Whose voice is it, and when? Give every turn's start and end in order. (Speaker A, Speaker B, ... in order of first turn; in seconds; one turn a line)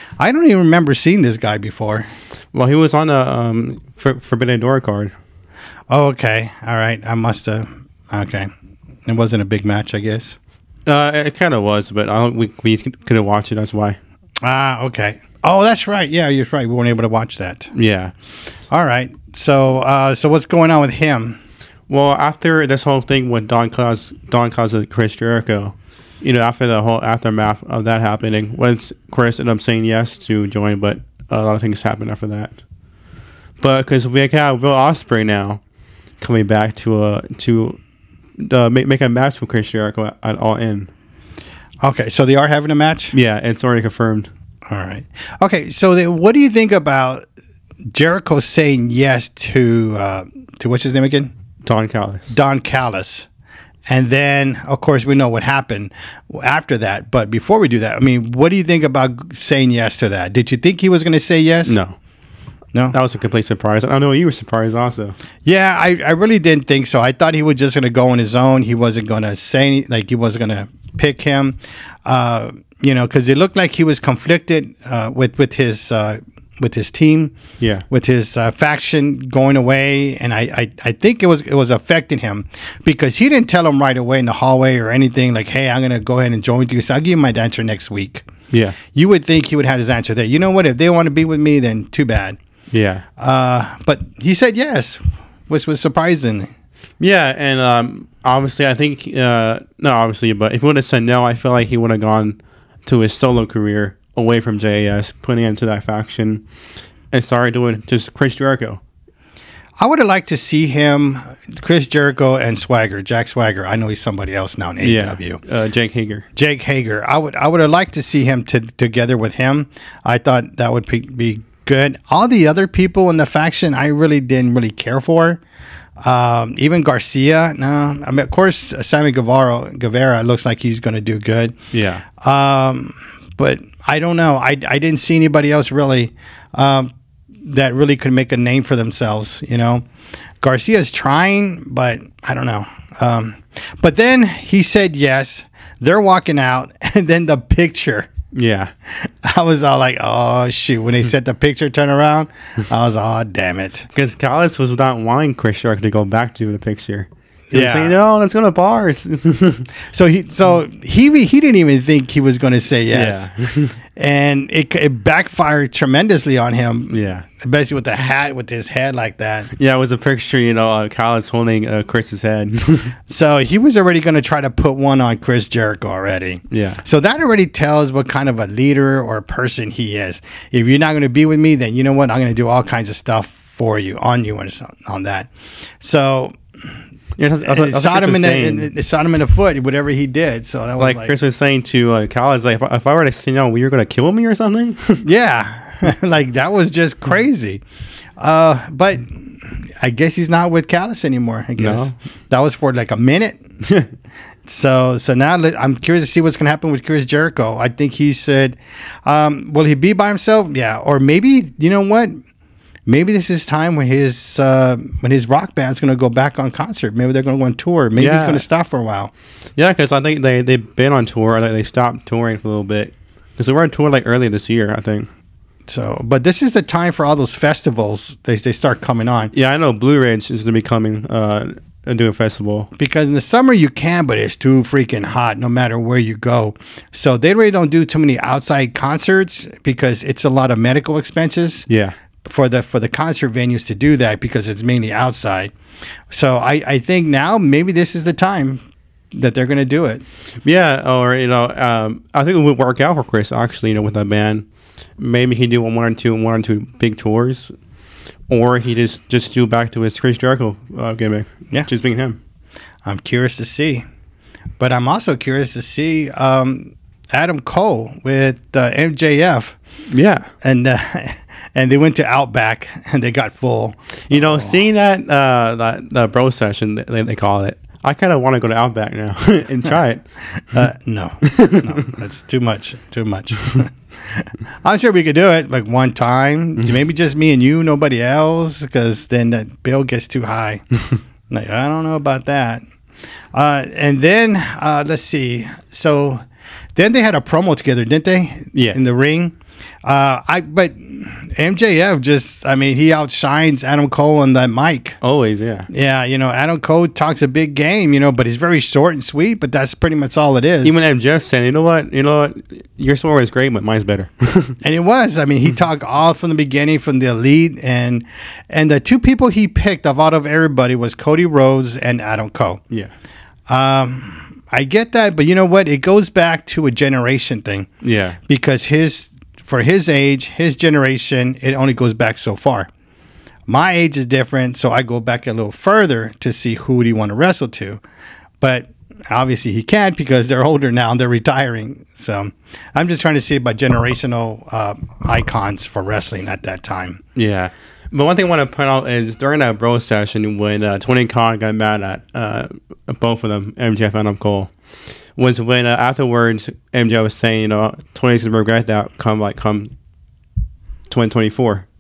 Speaker A: 0.2-2.1
Speaker B: 2.5-5.1
Speaker A: 5.9-8.5
Speaker A: 9.1-10.4
Speaker B: 10.8-14.0
Speaker A: 14.4-17.7
Speaker B: 17.7-18.1
Speaker A: 18.7-21.4
Speaker B: 21.9-32.6
Speaker B: 33.6-35.6
Speaker B: 36.2-37.8
Speaker B: 38.4-40.9
Speaker A: 41.8-43.1
Speaker B: 43.1-44.3
Speaker A: 44.7-47.2
Speaker A: 47.9-51.3
Speaker B: 51.6-52.3
Speaker A: 52.3-53.3
Speaker A: 53.9-61.8
Speaker B: 61.6-62.0
Speaker B: 62.9-65.2
Speaker A: 65.4-77.3
Speaker B: 77.6-77.8
Speaker A: 77.9-88.2
Speaker B: 88.5-88.8
Speaker A: 88.9-92.4
Speaker B: 92.7-93.0
Speaker A: 93.2-96.5
Speaker B: 97.0-106.4
Speaker B: 107.1-108.8
Speaker A: 109.8-115.4
Speaker B: 114.8-116.2
Speaker A: 116.3-125.4
Speaker A: 126.0-131.6
Speaker B: 131.7-132.0
Speaker A: 132.1-136.9
Speaker A: 137.4-139.8
Speaker A: 140.4-148.1
Speaker B: 148.3-148.7
Speaker A: 148.9-153.9
Speaker B: 153.9-159.7
Speaker A: 157.5-158.0
Speaker A: 159.8-163.3
Speaker B: 162.9-163.8
Speaker A: 163.9-169.5
Speaker B: 166.9-167.2
Speaker B: 169.5-172.9
Speaker A: 173.1-185.3
Speaker B: 176.5-176.8
Speaker A: 185.8-186.3
Speaker B: 187.2-188.7
Speaker A: 187.4-191.1
Speaker B: 190.8-195.0
Speaker A: 195.0-197.6
Speaker A: 198.2-203.4
Speaker B: 201.6-201.9
Speaker A: 204.4-212.2
Speaker A: 212.8-219.1
Speaker B: 217.9-218.4
Speaker B: 219.6-225.1
Speaker A: 225.7-229.3
Speaker B: 229.3-232.7
Speaker A: 232.8-241.7
Speaker B: 241.7-241.9
Speaker A: 242.2-245.5
Speaker A: 246.1-248.6
Speaker A: 249.1-250.0
Speaker B: 250.4-254.4
Speaker B: 255.0-257.5
Speaker B: 258.3-262.2
Speaker A: 262.8-263.8
Speaker A: 264.6-269.6
Speaker B: 269.9-270.3
Speaker A: 270.4-274.6
Speaker B: 274.1-280.0
Speaker A: 280.5-290.6
Speaker B: 281.2-281.8
Speaker A: 291.3-292.6
Speaker A: 293.3-296.2
Speaker A: 296.7-305.0
Speaker B: 298.5-298.8
Speaker B: 305.0-305.7
Speaker A: 305.7-310.8
Speaker B: 310.6-314.6
Speaker A: 314.6-322.6
Speaker A: 323.5-327.7
Speaker B: 327.8-328.2
Speaker A: 328.3-332.7
Speaker A: 333.5-337.8
Speaker A: 338.4-347.0
Speaker B: 347.1-354.5
Speaker B: 355.2-359.7
Speaker B: 360.9-361.6